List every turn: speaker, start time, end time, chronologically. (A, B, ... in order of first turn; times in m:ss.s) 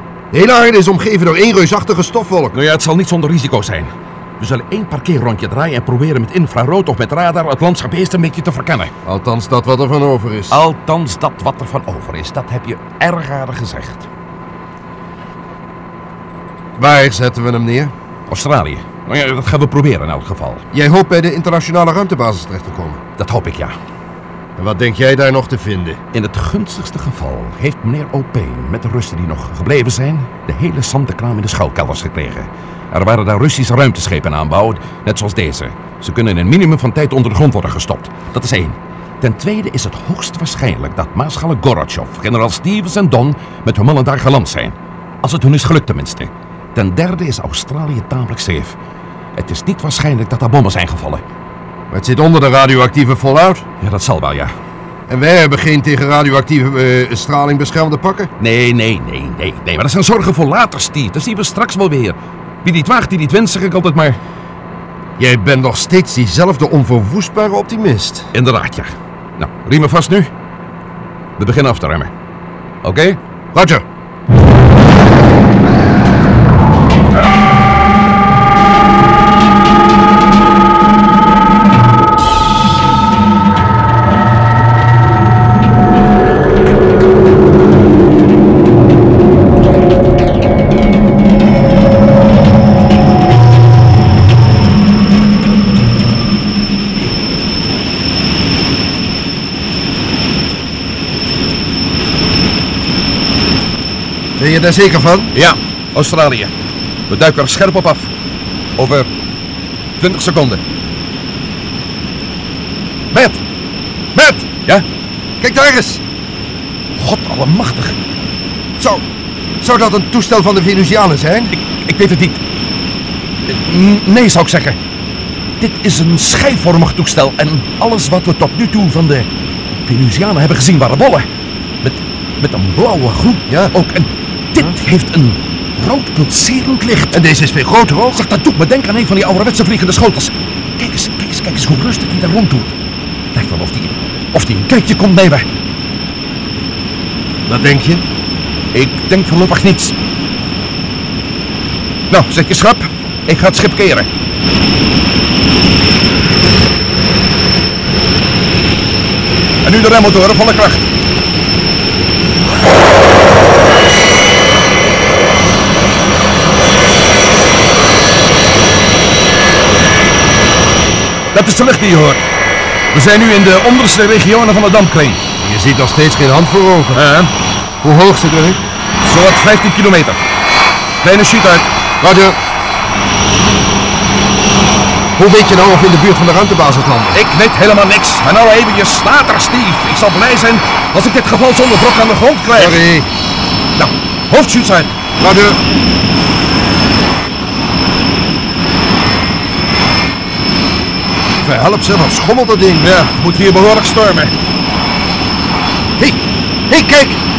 0:00.3-0:02.5 A
0:02.5-0:08.9 B
0:09.0-0:10.6 A
0:10.5-0:14.1 B
0:16.8-0:17.9 A
0:18.3-0:20.7 B
0:20.7-0:23.0 A
0:23.2-0:23.7 B
0:24.6-0:26.0 A
0:26.1-0:48.8 B
0:49.4-0:51.2 B
0:51.9-0:53.6 A
0:53.8-0:54.5 B
0:55.1-0:58.3 A
0:58.4-1:04.2 B
1:05.2-1:08.3 A
1:08.3-1:10.3 B
1:11.4-1:12.1 B
1:12.8-1:13.2 B
1:13.5-1:13.8 A
1:44.4-1:45.3 A
1:45.3-1:46.5 B
1:47.1-1:48.1 B
1:48.8-1:49.1 B
1:50.0-1:50.6 B
1:53.1-1:53.4 A
1:54.1-1:54.5 A
1:55.4-1:56.0 A
1:56.9-1:58.0 B
1:58.8-1:59.0 A
1:59.6-2:01.5 A
2:01.5-2:02.4 B
2:03.4-2:04.8 B
2:05.6-2:09.3 B
2:09.8-2:11.3 B
2:11.8-2:17.2 B
2:17.1-2:18.2 A
2:18.1-2:22.7 B
2:23.3-2:25.5 B
2:27.5-2:28.0 A
2:28.7-2:29.9 B
2:32.1-2:34.1 B
2:39.6-2:40.9 B
2:51.3-2:52.2 B
2:52.9-2:55.2 B
2:55.4-2:57.0 A
2:56.9-2:57.3 B
2:57.8-2:58.6 A
2:59.0-3:00.2 B
3:01.0-3:01.7 B
3:02.0-3:02.4 A
3:05.2-3:07.2 A
3:07.1-3:12.8 B
3:12.6-3:13.1 A
3:13.8-3:14.9 B
3:15.2-3:15.6 A
3:21.4-3:22.9 A
3:22.8-3:24.3 B
3:26.7-3:27.2 A